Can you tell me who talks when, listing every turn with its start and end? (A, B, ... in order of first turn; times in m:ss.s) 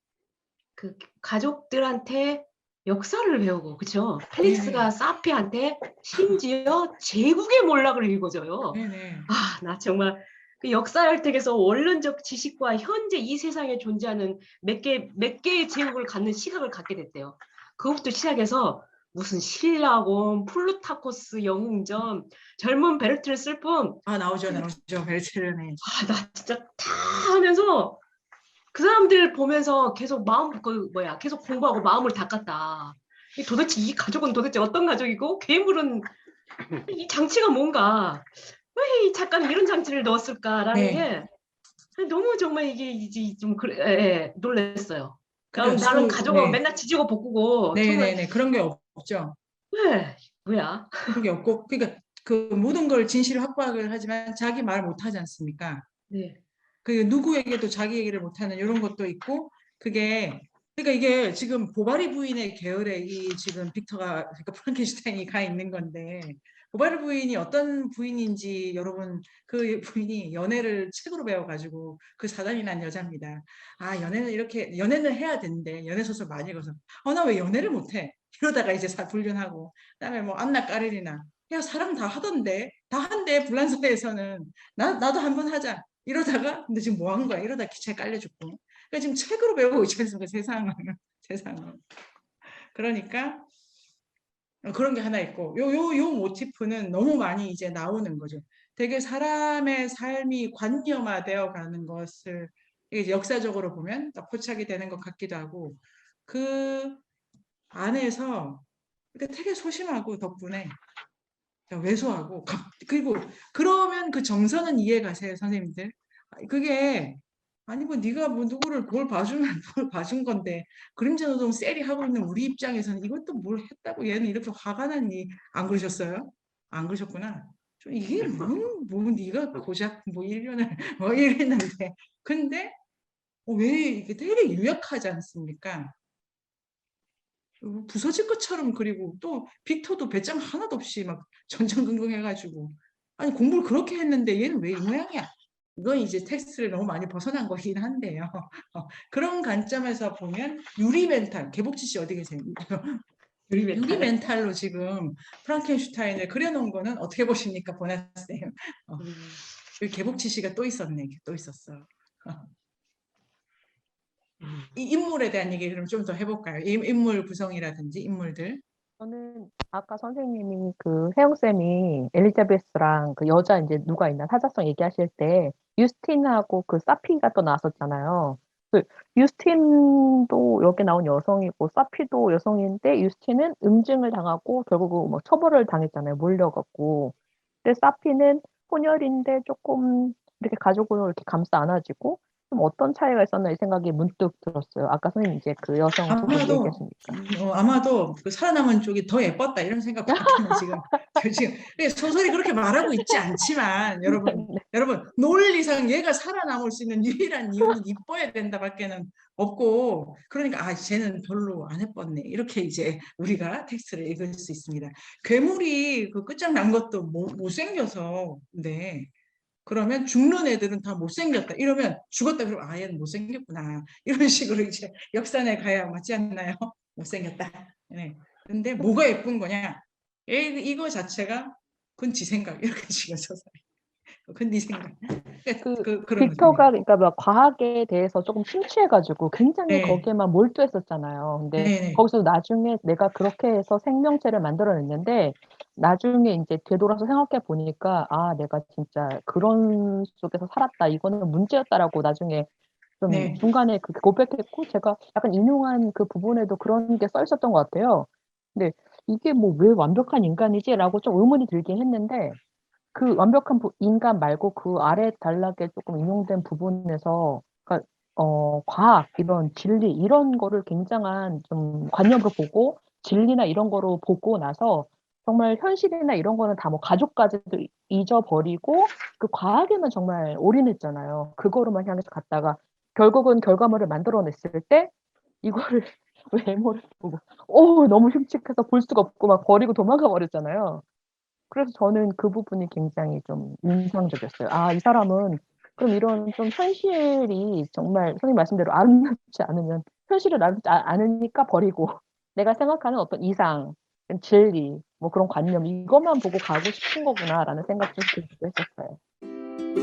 0:00.8-0:24.7 A
0:04.4-0:04.9 B
0:08.7-0:09.3 B
0:24.1-0:25.8 B
0:25.8-0:28.0 A
0:28.7-0:36.1 A
0:36.8-0:41.3 A
0:40.7-0:41.1 B
0:42.0-0:48.2 A
0:45.5-0:46.6 B
0:47.7-0:49.4 B
0:49.7-0:51.2 A
0:51.1-0:55.9 B
0:56.1-0:56.4 A
0:56.8-1:31.8 B
1:32.7-1:33.5 B
1:34.6-1:47.0 B
1:47.7-1:50.8 B
1:51.7-2:12.8 B
2:13.5-2:16.0 B
2:17.6-2:33.0 B
2:33.5-2:34.1 A
2:33.7-2:39.1 B
2:39.0-2:39.4 A
2:39.8-2:42.5 B
2:44.4-2:44.7 A
2:44.8-2:48.6 B
2:49.0-3:17.0 C
3:16.1-3:39.1 B
3:20.1-3:21.2 C
3:24.0-3:24.6 C
3:39.7-3:53.6 B
3:54.2-3:56.7 B
3:55.6-4:12.5 C
3:59.7-4:00.1 B
4:01.6-4:02.0 B
4:13.0-4:22.4 C
4:13.1-4:13.4 B
4:22.9-4:50.8 C
4:51.5-5:09.0 C